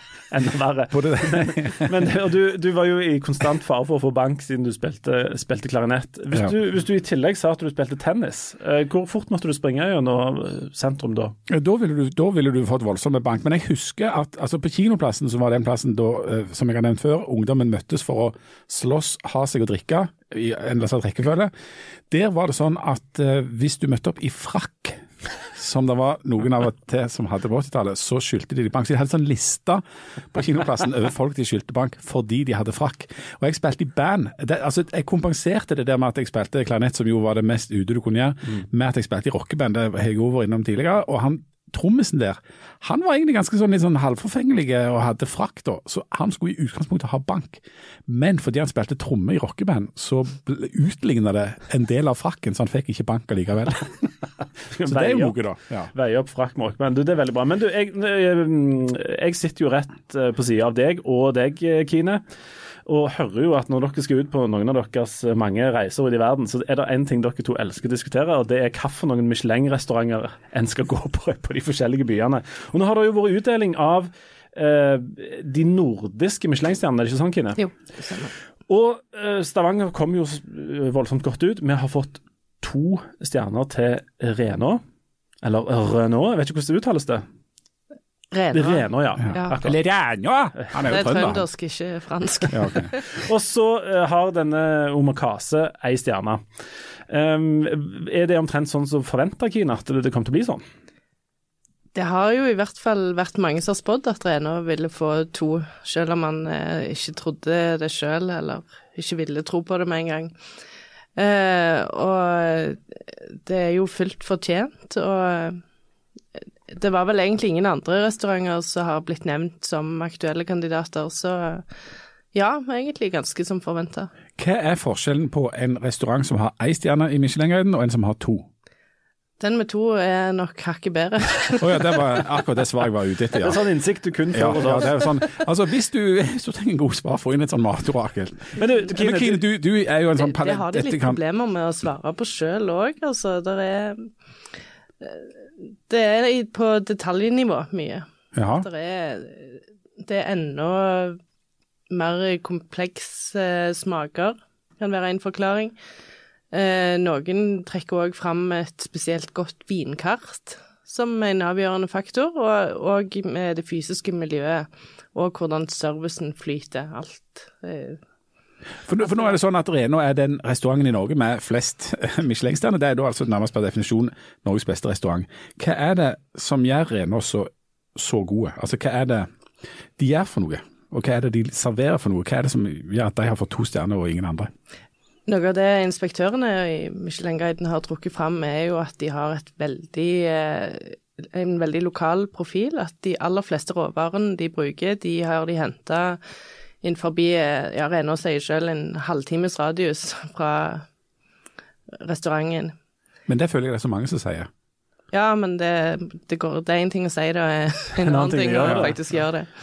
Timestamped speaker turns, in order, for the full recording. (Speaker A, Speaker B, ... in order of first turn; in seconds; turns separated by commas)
Speaker A: 0.3-11.3, Speaker B: 0.9-1.9, Speaker B: 11.5-21.5, Speaker B: 22.1-54.1, Speaker A: 54.7-55.4, Speaker B: 54.9-55.9, Speaker A: 55.9-62.2, Speaker A: 62.9-77.6, Speaker C: 77.6-78.3, Speaker A: 78.7-84.8, Speaker A: 85.4-87.2, Speaker C: 88.3-89.7, Speaker A: 88.5-89.8, Speaker B: 89.2-91.4, Speaker C: 90.8-93.1, Speaker B: 92.5-92.9, Speaker A: 93.1-96.5, Speaker A: 97.1-100.6, Speaker C: 102.0-110.3, Speaker C: 111.2-115.6, Speaker C: 116.7-121.7, Speaker C: 122.3-124.1, Speaker B: 124.4-128.5, Speaker C: 129.4-132.2, Speaker B: 131.6-133.6, Speaker A: 133.4-135.0, Speaker B: 134.3-141.2, Speaker A: 138.6-139.4, Speaker C: 140.2-144.1, Speaker C: 145.0-151.2, Speaker B: 148.3-148.7, Speaker C: 151.9-155.8, Speaker C: 156.5-168.0, Speaker B: 168.8-179.3, Speaker C: 169.0-169.3, Speaker B: 180.0-184.5, Speaker C: 185.3-196.2, Speaker C: 196.8-200.9, Speaker C: 202.0-202.7, Speaker B: 203.3-204.5, Speaker C: 205.1-209.5, Speaker A: 208.0-209.0